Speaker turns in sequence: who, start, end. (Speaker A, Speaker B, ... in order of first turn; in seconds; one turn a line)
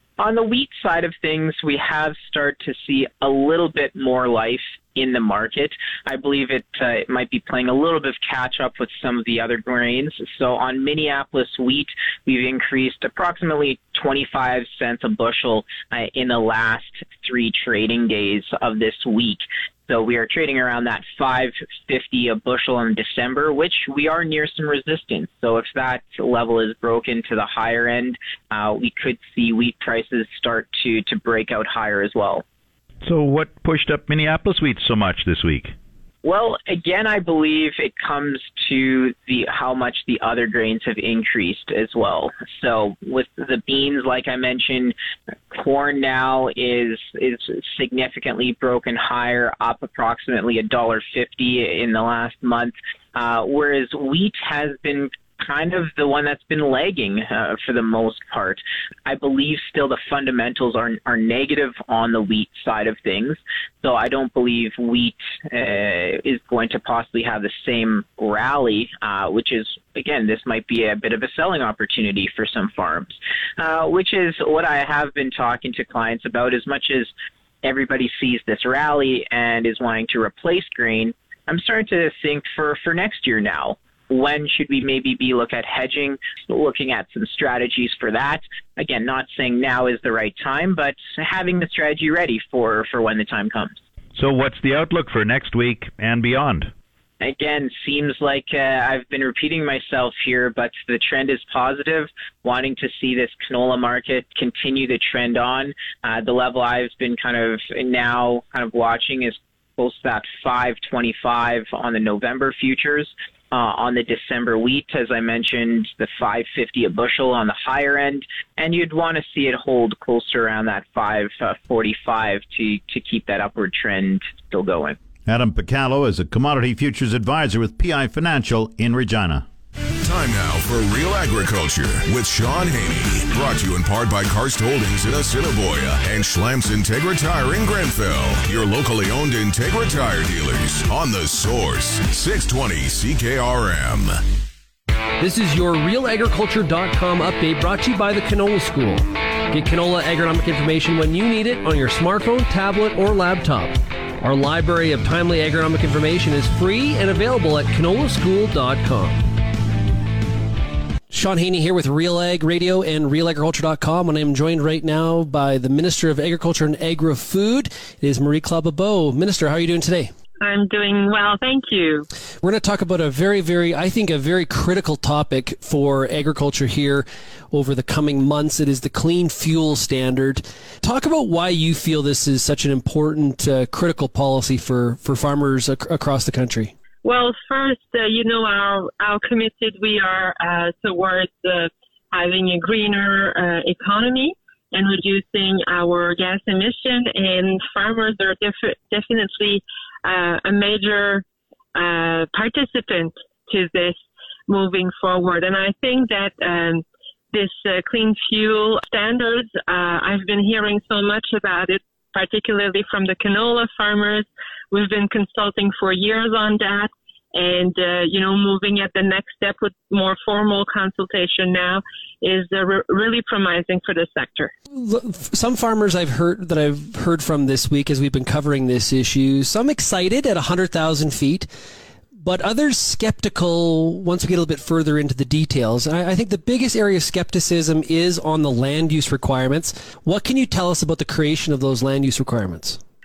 Speaker A: 0.2-32.4
Speaker B: 33.0-35.7
Speaker A: 36.2-45.0
Speaker A: 45.5-77.1
Speaker A: 77.6-93.8
Speaker B: 94.2-96.7
Speaker A: 97.2-125.0
Speaker C: 125.3-129.5
Speaker D: 130.0-144.2
Speaker E: 145.2-159.3
Speaker E: 161.1-170.1
Speaker F: 170.4-172.1
Speaker E: 172.4-186.7
Speaker F: 187.0-224.5
Speaker E: 224.7-231.5
Speaker E: 232.1-242.8